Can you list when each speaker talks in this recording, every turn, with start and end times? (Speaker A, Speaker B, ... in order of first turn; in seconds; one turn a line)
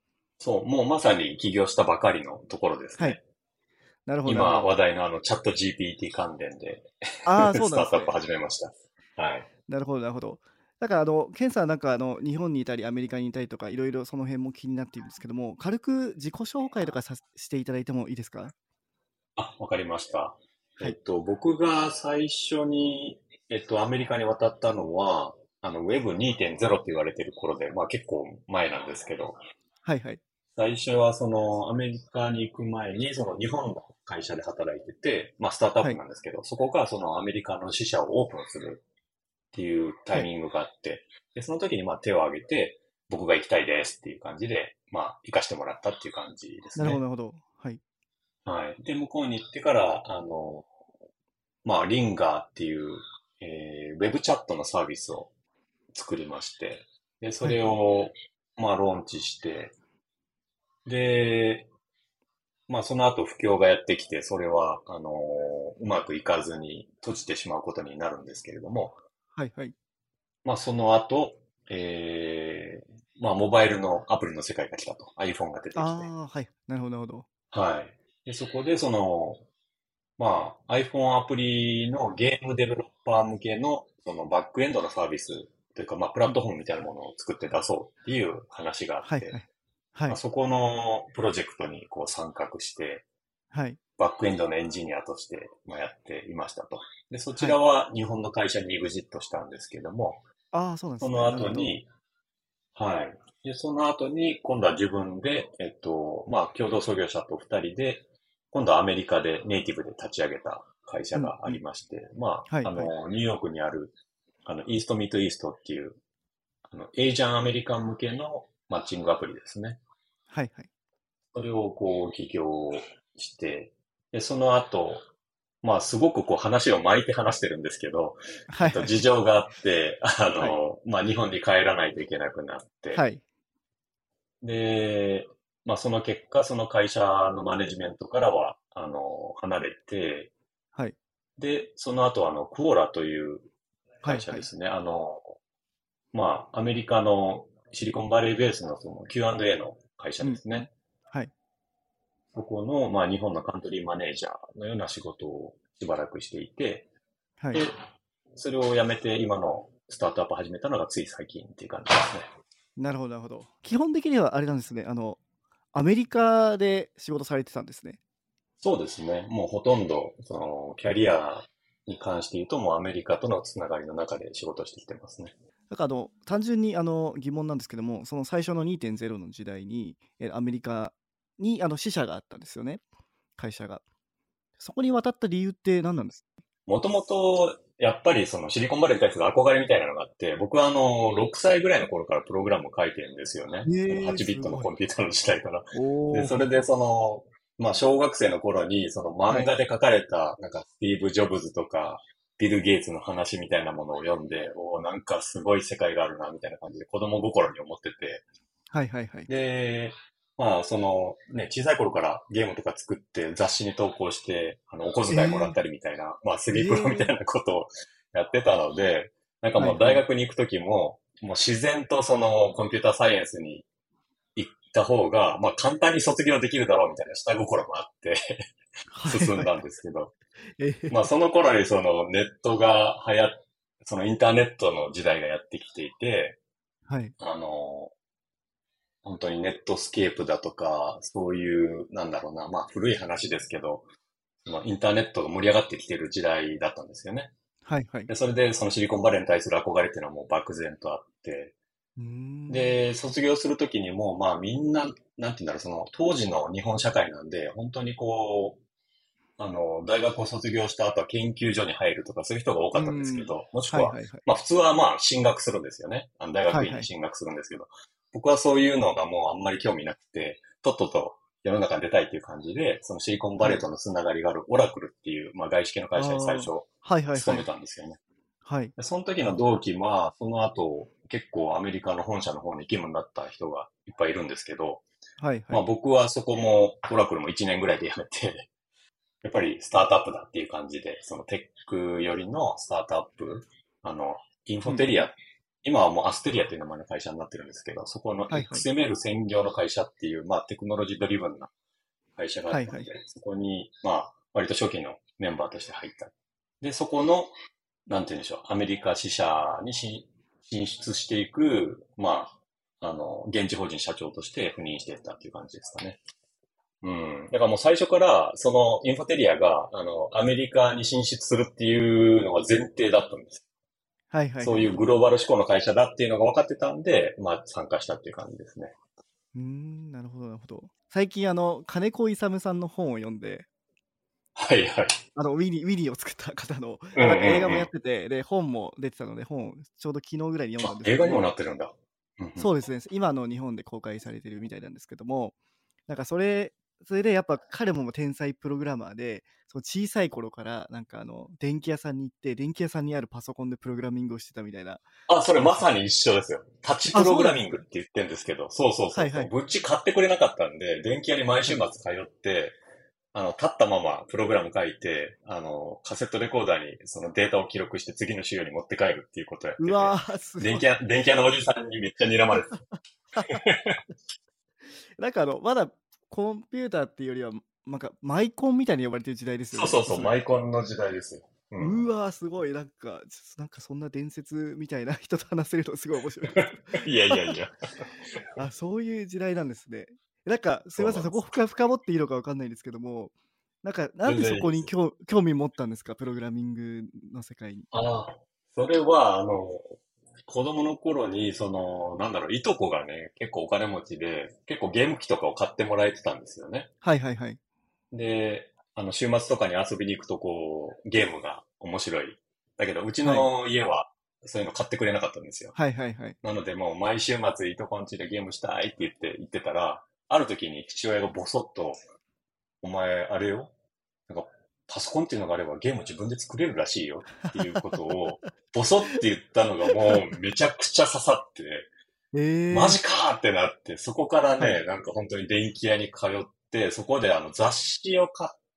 Speaker A: 0.4-3.2
Speaker B: 4.1-4.7
Speaker A: 4.3-9.5
Speaker B: 7.3-8.2
Speaker B: 9.7-18.5
Speaker A: 19.4-29.4
Speaker B: 29.9-30.2
Speaker A: 30.6-38.8
Speaker A: 39.5-47.0
Speaker B: 46.8-47.8
Speaker A: 48.5-50.7
Speaker A: 51.6-55.3
Speaker A: 55.9-59.7
Speaker B: 57.4-57.7
Speaker A: 60.9-61.7
Speaker A: 62.7-69.0
Speaker B: 69.4-69.8
Speaker A: 70.5-76.1
Speaker B: 75.8-77.3
Speaker A: 77.5-79.5
Speaker A: 80.2-89.4
Speaker B: 89.0-90.2
Speaker A: 90.1-93.0
Speaker B: 93.5-93.8
Speaker A: 94.0-100.2
Speaker B: 100.5-101.8
Speaker A: 101.0-101.9
Speaker A: 102.8-116.0
Speaker B: 111.2-111.6
Speaker B: 112.5-112.9
Speaker A: 116.7-119.8
Speaker B: 120.3-120.7
Speaker A: 121.3-125.1
Speaker A: 125.6-133.0
Speaker B: 128.5-129.0
Speaker B: 132.9-133.2
Speaker A: 134.4-140.3
Speaker A: 141.4-143.5
Speaker B: 144.0-144.5
Speaker A: 144.0-145.4
Speaker A: 146.1-150.7
Speaker B: 150.2-151.3
Speaker A: 152.3-156.9
Speaker B: 157.4-157.7
Speaker A: 157.5-162.3
Speaker B: 162.8-165.2
Speaker B: 165.7-168.0
Speaker A: 168.6-175.3
Speaker B: 175.7-182.8
Speaker B: 183.4-183.8
Speaker B: 184.6-186.2
Speaker A: 186.7-208.2
Speaker B: 193.7-194.7
Speaker B: 195.7-196.5
Speaker B: 208.7-209.3
Speaker A: 209.3-223.7
Speaker B: 215.1-215.6
Speaker B: 216.5-217.1
Speaker B: 219.6-220.0
Speaker A: 224.3-228.5
Speaker B: 228.9-229.6
Speaker A: 229.1-230.1
Speaker B: 230.6-231.1
Speaker A: 230.9-236.4
Speaker B: 236.9-237.1
Speaker A: 237.2-237.9
Speaker A: 239.0-243.9
Speaker A: 244.4-247.3
Speaker B: 247.7-248.1
Speaker A: 248.1-251.5
Speaker B: 252.0-252.8
Speaker A: 252.5-258.6
Speaker A: 259.4-278.0
Speaker B: 262.7-264.2
Speaker B: 266.5-266.9
Speaker B: 276.0-277.5
Speaker B: 278.4-278.7
Speaker A: 278.8-284.9
Speaker B: 285.2-285.6
Speaker A: 285.5-288.5
Speaker A: 289.2-301.5
Speaker B: 294.7-294.9
Speaker B: 298.3-298.6
Speaker A: 302.2-307.3
Speaker B: 302.5-302.9
Speaker A: 307.9-316.0
Speaker A: 316.8-323.4
Speaker B: 324.1-324.8
Speaker A: 324.4-328.8
Speaker B: 329.4-333.5
Speaker A: 334.4-335.0
Speaker B: 335.1-341.3
Speaker A: 336.9-337.7
Speaker A: 340.6-342.5
Speaker B: 342.4-345.4
Speaker B: 345.9-354.9
Speaker A: 355.1-362.6
Speaker B: 356.9-357.4
Speaker B: 358.9-359.3
Speaker A: 363.1-372.6
Speaker B: 369.6-370.6
Speaker B: 373.1-373.4
Speaker A: 373.2-373.8
Speaker B: 375.0-380.1
Speaker A: 379.5-381.9
Speaker B: 381.6-387.4
Speaker A: 386.3-387.5
Speaker B: 388.4-397.7
Speaker A: 390.8-391.2
Speaker A: 394.1-394.7
Speaker A: 397.7-406.7
Speaker B: 406.8-407.4
Speaker A: 407.9-415.6
Speaker B: 413.0-413.3
Speaker B: 415.6-416.2
Speaker A: 416.2-421.8
Speaker A: 422.6-423.5
Speaker A: 424.1-431.7
Speaker B: 432.1-432.8
Speaker A: 432.5-438.4